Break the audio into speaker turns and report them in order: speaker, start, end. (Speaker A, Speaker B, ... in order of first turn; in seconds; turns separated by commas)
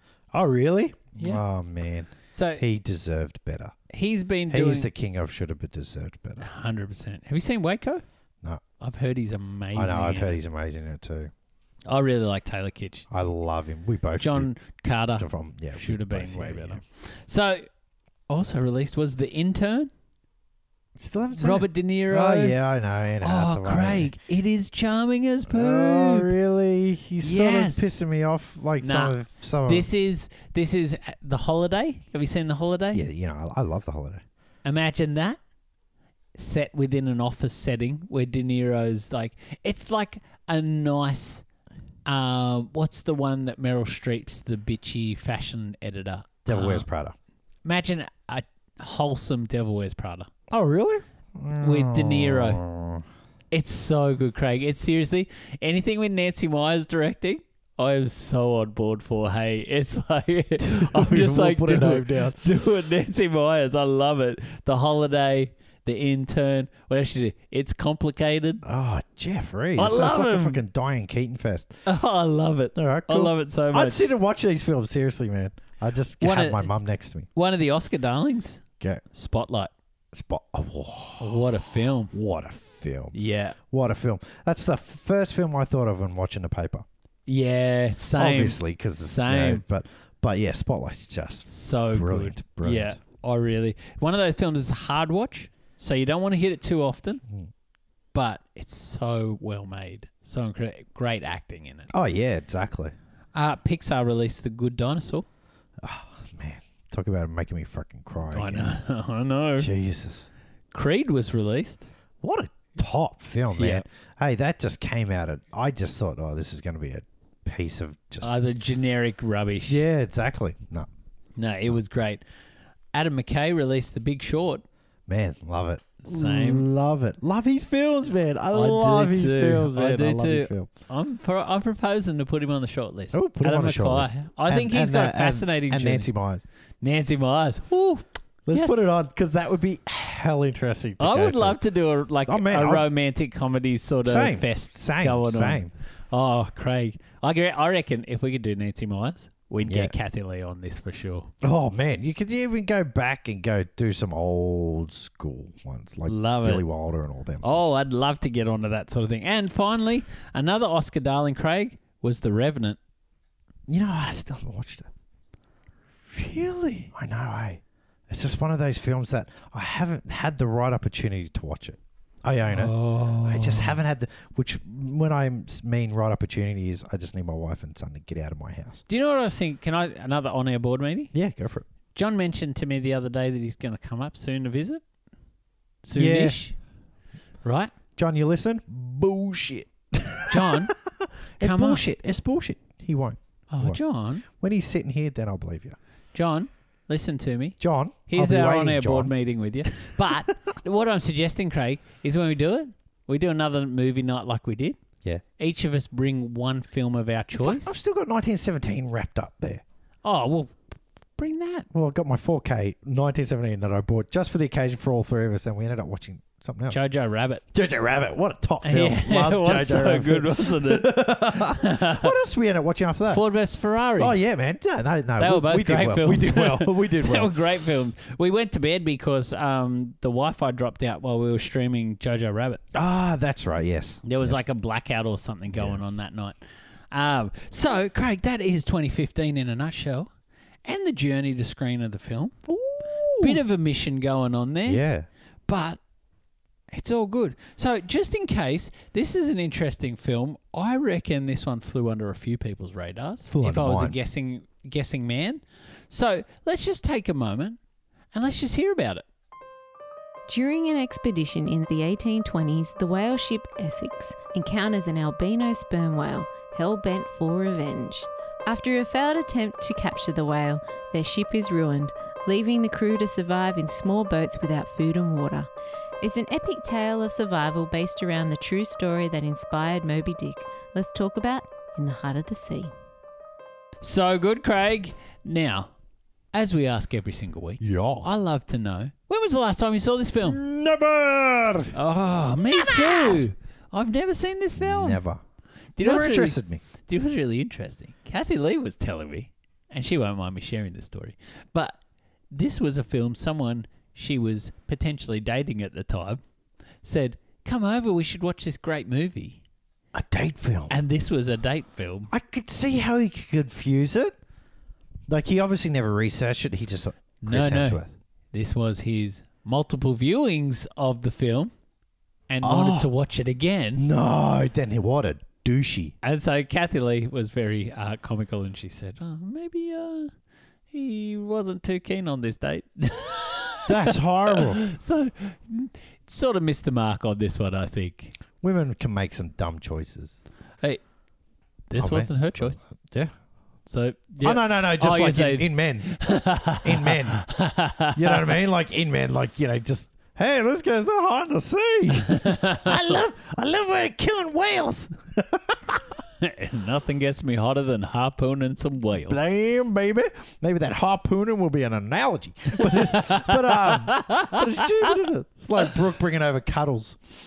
Speaker A: 0.3-3.8, Speaker B: 2.3-2.6, Speaker B: 3.9-4.9, Speaker A: 4.5-6.5, Speaker B: 6.4-8.0, Speaker B: 8.8-10.4, Speaker A: 9.7-11.3, Speaker B: 11.9-13.1, Speaker A: 13.1-14.5, Speaker B: 14.2-17.7, Speaker A: 15.2-16.8, Speaker B: 18.3-19.9, Speaker A: 21.0-24.1, Speaker B: 21.4-22.6, Speaker B: 23.2-26.4, Speaker A: 25.5-29.9, Speaker B: 27.2-28.0, Speaker B: 28.8-33.1, Speaker A: 32.9-34.2, Speaker B: 34.6-35.4, Speaker B: 36.4-41.5, Speaker B: 42.1-46.9, Speaker A: 46.5-47.1, Speaker B: 47.6-50.3, Speaker A: 50.5-53.0, Speaker B: 51.6-52.6, Speaker B: 53.5-68.6, Speaker A: 60.6-62.5, Speaker A: 68.6-71.7, Speaker B: 69.8-70.6, Speaker B: 71.9-74.0, Speaker A: 72.8-77.3, Speaker B: 76.2-76.7, Speaker B: 77.3-79.7, Speaker A: 80.1-83.2, Speaker B: 81.2-82.1, Speaker B: 83.1-83.6, Speaker A: 83.7-86.9, Speaker B: 87.3-89.6, Speaker A: 88.2-93.0, Speaker B: 91.5-97.2, Speaker B: 98.1-101.9, Speaker A: 101.9-102.9, Speaker B: 103.3-105.3, Speaker A: 105.8-108.7, Speaker B: 108.3-109.7, Speaker A: 109.6-110.3, Speaker B: 110.7-111.9, Speaker A: 112.2-118.3, Speaker B: 113.5-113.8, Speaker B: 118.2-119.8, Speaker A: 119.7-120.9, Speaker B: 121.4-122.2, Speaker B: 122.9-124.6, Speaker A: 125.1-130.7, Speaker B: 126.0-126.7, Speaker B: 128.5-136.1, Speaker A: 133.1-136.4, Speaker B: 136.8-138.9, Speaker A: 138.5-141.6, Speaker B: 141.0-151.3, Speaker A: 142.3-142.9, Speaker A: 144.0-145.7, Speaker A: 149.6-149.9, Speaker A: 151.4-157.6, Speaker B: 156.1-156.7, Speaker B: 157.4-162.8, Speaker A: 163.7-164.9, Speaker B: 166.1-166.9, Speaker A: 166.9-178.8, Speaker B: 172.5-173.8, Speaker B: 178.9-181.1, Speaker A: 181.1-181.7, Speaker B: 181.9-184.8, Speaker B: 185.8-186.6, Speaker A: 185.9-186.4, Speaker B: 187.4-187.7, Speaker A: 188.0-195.8, Speaker B: 190.3-190.7, Speaker B: 191.4-191.8, Speaker B: 193.5-194.2, Speaker B: 196.1-204.8, Speaker A: 197.6-199.1, Speaker A: 199.7-200.2, Speaker B: 205.4-207.8, Speaker A: 207.4-209.6, Speaker B: 210.1-210.6, Speaker B: 211.2-211.7, Speaker A: 211.7-216.8, Speaker B: 216.7-217.4, Speaker A: 217.5-223.2, Speaker B: 218.6-222.1, Speaker B: 223.1-224.2, Speaker A: 224.0-227.4, Speaker B: 225.2-232.6, Speaker A: 232.7-234.4, Speaker B: 234.0-236.4, Speaker A: 235.5-235.8, Speaker B: 236.9-240.1, Speaker B: 240.7-242.3, Speaker A: 242.5-243.4, Speaker B: 243.2-244.8, Speaker A: 244.7-245.1, Speaker B: 245.5-245.8, Speaker B: 246.7-257.6, Speaker A: 253.3-254.0, Speaker B: 258.1-259.1, Speaker C: 260.3-275.5, Speaker C: 276.0-282.7, Speaker B: 283.8-285.7, Speaker B: 286.3-290.4, Speaker A: 287.6-288.1, Speaker A: 290.2-291.7, Speaker B: 291.7-295.0, Speaker A: 292.4-293.2, Speaker A: 294.6-295.2, Speaker B: 295.8-301.8, Speaker A: 295.8-296.6, Speaker B: 302.3-306.2, Speaker B: 306.8-309.4, Speaker A: 309.9-310.7, Speaker B: 310.7-312.1, Speaker A: 312.1-314.1, Speaker A: 315.1-317.9, Speaker B: 317.2-317.8, Speaker B: 318.3-321.5, Speaker B: 322.3-323.9, Speaker A: 322.4-322.9, Speaker A: 323.8-325.9, Speaker B: 326.0-330.1, Speaker B: 330.7-338.1, Speaker A: 333.7-334.6, Speaker A: 338.4-340.2, Speaker B: 341.7-342.6, Speaker A: 341.8-343.1, Speaker B: 343.7-348.3, Speaker A: 344.2-347.3, Speaker A: 347.9-355.9, Speaker B: 352.1-352.9, Speaker B: 356.2-359.2, Speaker A: 359.0-367.0, Speaker B: 362.6-365.0